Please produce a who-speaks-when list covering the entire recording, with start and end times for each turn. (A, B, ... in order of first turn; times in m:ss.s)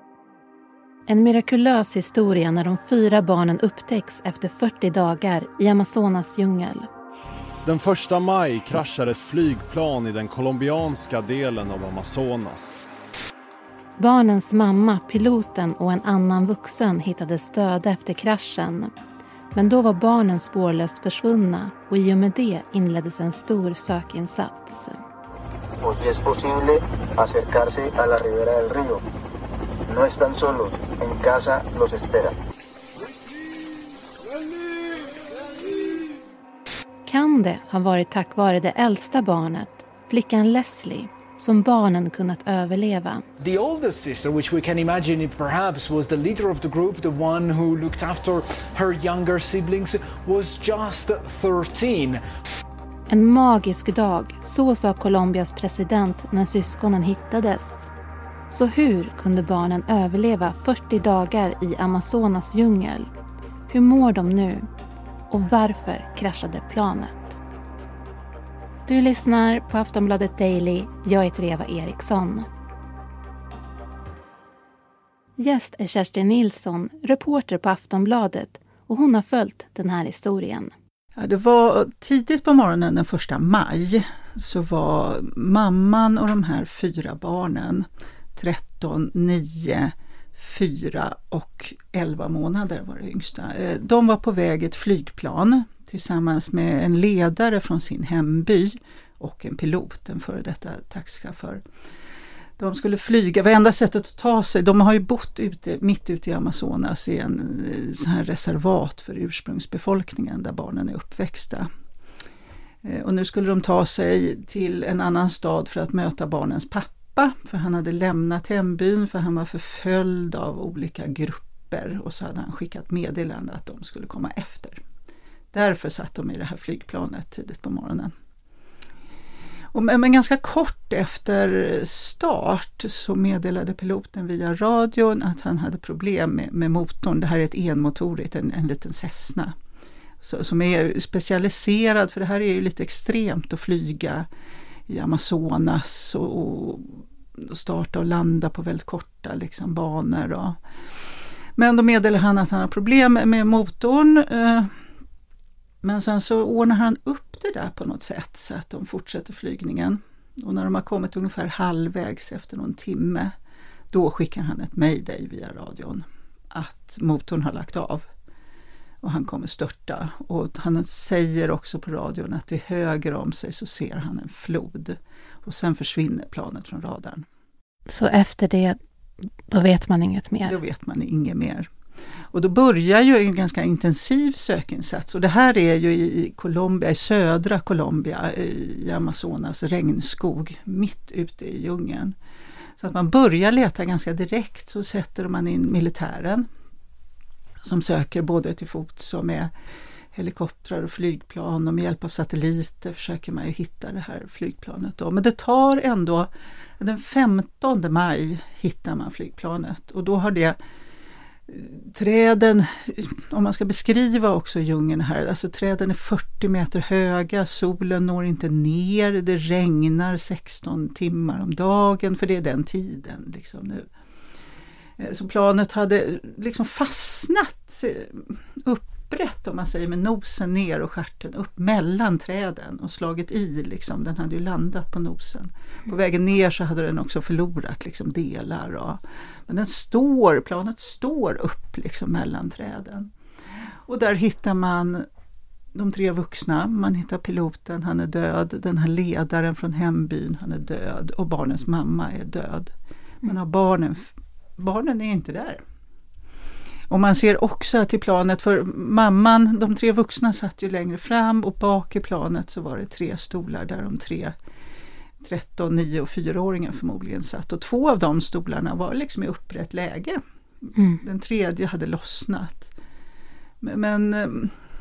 0:01.1-0:06.9 A
0:07.6-0:12.8 B
0:14.0-0:18.9 A
0:19.5-0:25.0 A
0:25.8-0:29.0 C
0:29.9-0:32.3 C
0:37.1-0:43.2 A
0:43.4-0:52.2 D
0:53.1-0:57.9 A
0:58.5-1:03.1 A
1:03.7-1:04.7 A
1:05.3-1:07.4 A
1:08.9-1:12.5 A
1:15.4-1:20.7 A
1:21.2-1:41.6 E
1:42.6-1:51.7 E
1:52.8-2:04.8 E
2:05.5-2:08.1 E
2:09.7-2:19.5 E
2:20.2-2:24.3 E
2:24.9-2:30.6 E
2:31.6-2:34.7 E
2:35.8-2:43.3 E
2:43.9-2:48.1 E
2:49.0-2:57.3 E
2:57.9-2:58.8 A
2:59.5-3:00.6 A
3:00.4-3:01.7 E
3:02.3-3:12.2 E
3:12.8-3:16.5 E
3:17.6-3:19.5 E
3:20.1-3:30.6 E
3:31.5-3:43.9 E
3:45.0-4:03.1 E
4:03.9-4:05.1 E
4:05.8-4:12.7 E
4:13.2-4:15.6 E
4:16.9-4:24.4 E
4:25.2-4:30.2 E
4:30.8-4:31.0 A
4:31.0-4:32.7 E
4:33.6-4:34.6 E